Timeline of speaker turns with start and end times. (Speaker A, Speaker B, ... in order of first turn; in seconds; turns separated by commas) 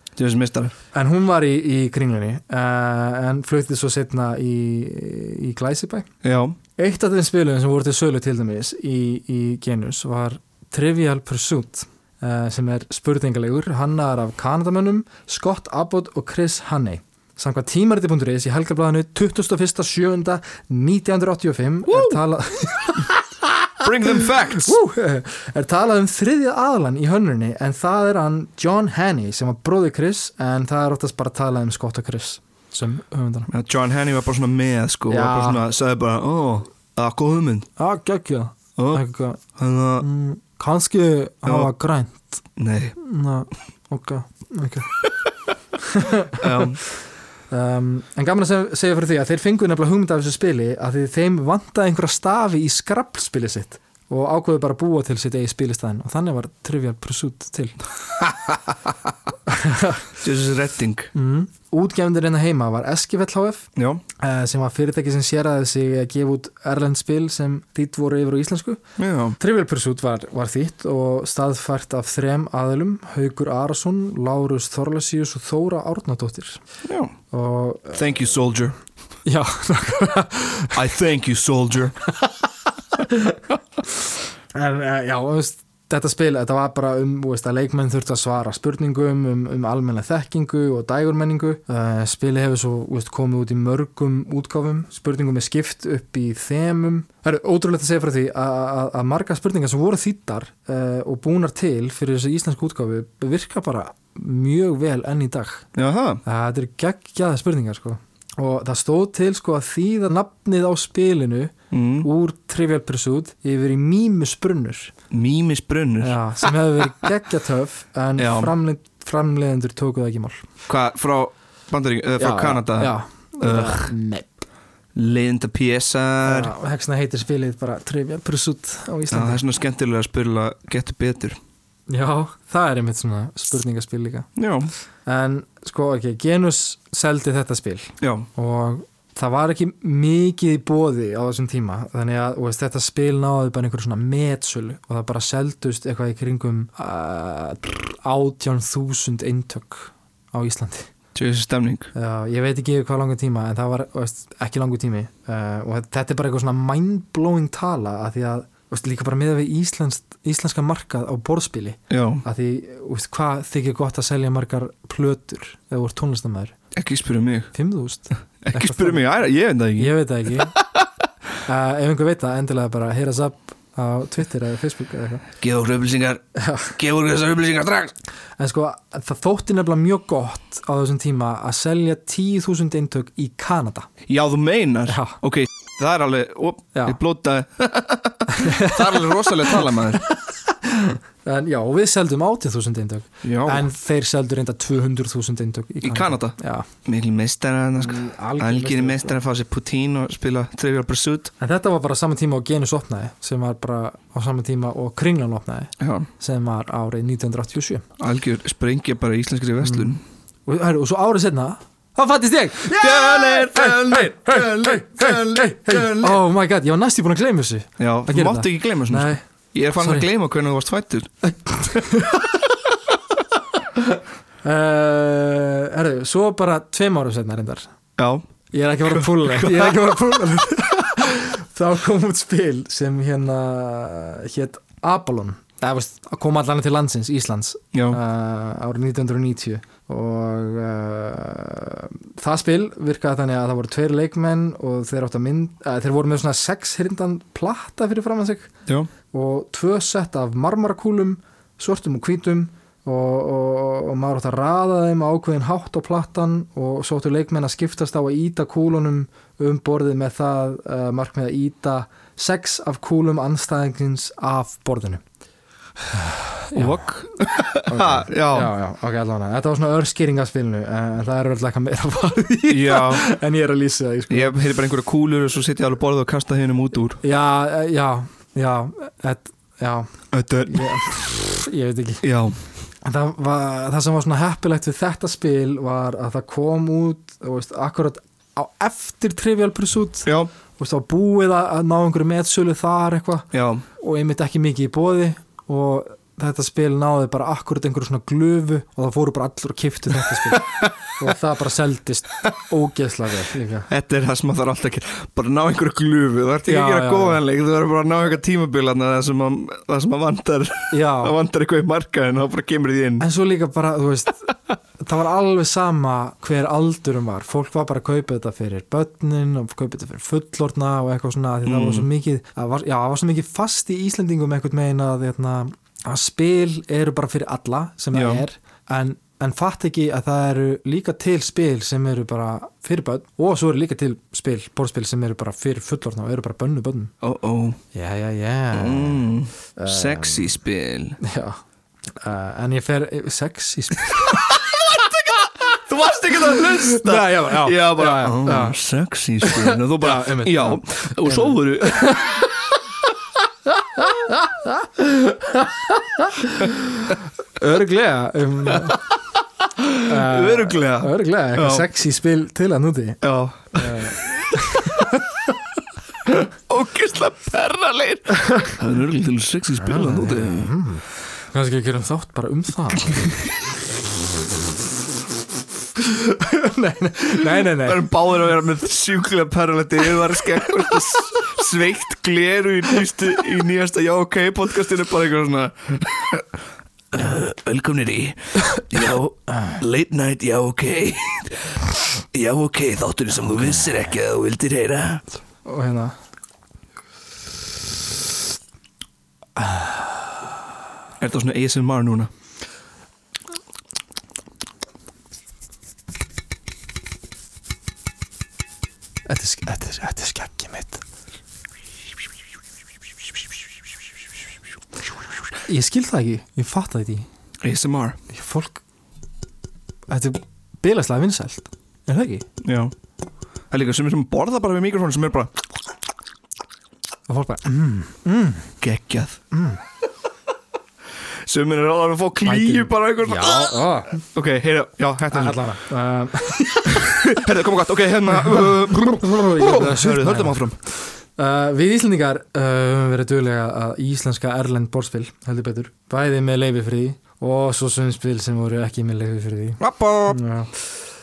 Speaker A: 0.2-0.7, Speaker B: 0.9-6.1, Speaker A: 6.2-6.6, Speaker B: 6.8-33.5, Speaker A: 21.9-22.2, Speaker A: 23.8-24.8, Speaker A: 33.5-37.7, Speaker B: 35.1-35.6, Speaker B: 37.8-39.4, Speaker A: 38.8-39.0, Speaker A: 39.5-40.0, Speaker B: 40.0-42.4, Speaker A: 41.5-41.7, Speaker A: 42.6-42.9, Speaker B: 43.0-45.0, Speaker B: 45.8-46.9, Speaker A: 46.4-46.8, Speaker B: 47.5-57.8, Speaker B: 59.5-60.1, Speaker A: 60.2-61.1, Speaker B: 61.1-68.8, Speaker A: 63.8-64.0, Speaker A: 69.0-69.4, Speaker B: 69.4-76.6, Speaker A: 76.8-77.2, Speaker B: 77.3-78.0, Speaker A: 77.9-78.8, Speaker B: 79.2-80.8, Speaker A: 80.7-82.0, Speaker B: 82.9-83.4, Speaker B: 84.5-105.7, Speaker A: 105.7-106.2, Speaker B: 106.2-114.9, Speaker A: 111.7-112.1, Speaker A: 115.1-116.5, Speaker B: 116.0-120.5, Speaker A: 118.2-118.5, Speaker A: 120.7-123.9, Speaker B: 122.2-124.3, Speaker A: 124.9-126.5, Speaker B: 126.2-129.4, Speaker A: 129.1-131.4, Speaker B: 131.9-134.3, Speaker A: 134.3-134.7, Speaker B: 135.1-150.9, Speaker A: 138.0-138.3, Speaker A: 151.1-151.9, Speaker B: 151.9-166.5, Speaker A: 161.9-162.2, Speaker A: 166.7-167.5, Speaker B: 167.5-169.1, Speaker A: 168.4-170.9, Speaker B: 169.8-170.6, Speaker B: 171.4-175.2, Speaker A: 175.4-176.2, Speaker B: 176.3-176.8, Speaker A: 176.8-177.9, Speaker B: 178.4-183.9, Speaker A: 184.1-190.0, Speaker B: 184.9-185.2, Speaker B: 188.3-196.7, Speaker A: 193.2-193.6, Speaker A: 195.8-201.3, Speaker B: 197.8-199.2, Speaker B: 201.4-207.8, Speaker A: 205.8-206.1, Speaker A: 208.0-210.0, Speaker B: 209.6-209.9, Speaker B: 210.5-219.2, Speaker A: 212.7-216.2, Speaker A: 217.8-221.1, Speaker B: 219.8-220.1, Speaker B: 221.2-222.4, Speaker B: 223.8-227.7, Speaker A: 228.0-228.2, Speaker B: 228.5-248.5, Speaker A: 228.9-229.9, Speaker A: 237.7-238.0, Speaker B: 249.1-265.0, Speaker B: 265.9-266.8, Speaker A: 266.5-268.5, Speaker B: 267.7-274.4, Speaker A: 272.5-273.0, Speaker A: 274.1-277.0, Speaker B: 277.0-282.0, Speaker A: 280.1-280.8, Speaker A: 282.0-282.4, Speaker B: 282.8-303.7, Speaker A: 290.0-290.3, Speaker A: 293.3-293.6, Speaker A: 300.1-300.6, Speaker A: 303.7-313.0, Speaker B: 306.4-307.2, Speaker B: 310.7-311.1, Speaker B: 313.0-336.9, Speaker A: 321.4-321.9, Speaker A: 327.9-328.2, Speaker A: 337.0-337.6, Speaker B: 337.7-340.3, Speaker A: 338.5-341.0, Speaker B: 341.0-341.4, Speaker B: 342.0-344.3, Speaker A: 344.0-352.0, Speaker B: 346.3-348.6, Speaker B: 349.2-352.4, Speaker B: 353.5-358.8, Speaker A: 358.5-358.8, Speaker A: 359.6-361.6, Speaker B: 359.8-363.0, Speaker A: 363.0-364.0, Speaker B: 363.6-365.3, Speaker A: 366.1-370.5, Speaker B: 368.1-368.5, Speaker B: 369.6-373.3, Speaker B: 375.8-377.9, Speaker A: 377.2-386.3, Speaker A: 386.9-395.0, Speaker B: 395.4-395.9, Speaker B: 399.4-399.8, Speaker A: 401.0-402.1, Speaker B: 409.1-410.8, Speaker B: 415.4-417.1, Speaker A: 417.4-418.0, Speaker B: 418.1-418.6, Speaker B: 419.9-422.2, Speaker A: 422.4-422.7, Speaker A: 423.5-425.3, Speaker B: 427.1-428.5, Speaker A: 428.6-429.2, Speaker B: 429.3-429.6, Speaker A: 431.2-435.4, Speaker B: 432.2-434.0, Speaker B: 435.1-437.1, Speaker A: 436.6-440.6, Speaker B: 438.1-440.5, Speaker B: 441.2-450.7, Speaker A: 449.6-450.2